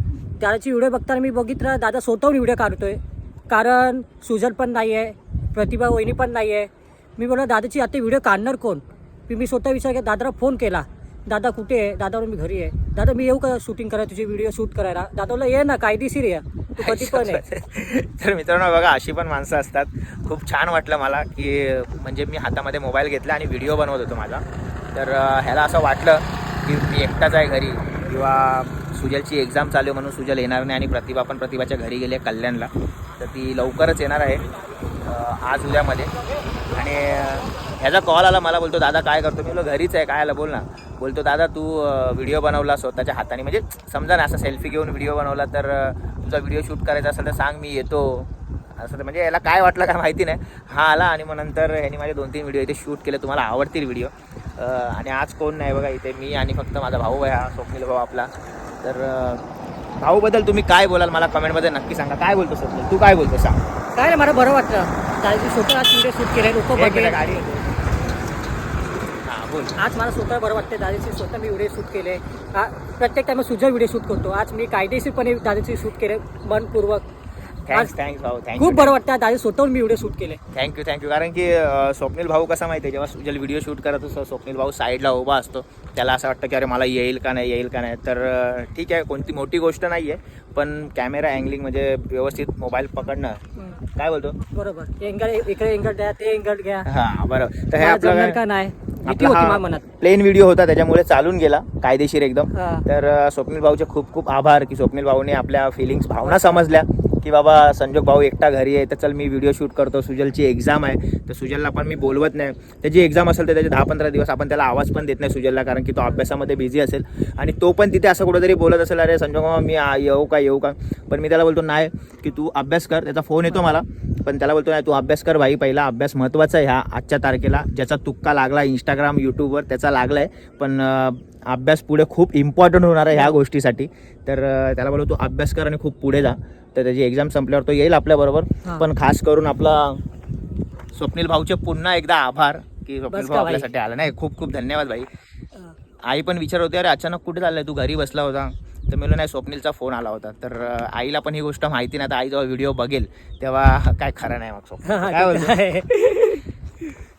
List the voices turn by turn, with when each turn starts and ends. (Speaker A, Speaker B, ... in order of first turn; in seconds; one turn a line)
Speaker A: 0.4-17.4
Speaker B: 16.8-34.5
Speaker B: 35.0-36.1
Speaker B: 36.7-58.3
Speaker B: 58.8-59.4
Speaker B: 60.0-63.6
Speaker A: 63.9-67.2
Speaker B: 66.8-67.8
Speaker B: 69.2-69.8
Speaker A: 69.8-77.0
Speaker B: 77.7-78.9
Speaker A: 78.6-80.4
Speaker B: 80.5-93.4
Speaker B: 94.0-94.4
Speaker A: 94.5-96.9
Speaker B: 96.8-98.4
Speaker A: 97.8-99.8
Speaker B: 99.0-140.0
Speaker A: 102.5-102.8
Speaker A: 106.2-106.6
Speaker B: 140.9-145.1
Speaker A: 143.1-143.7
Speaker B: 146.1-155.5
Speaker A: 154.8-156.4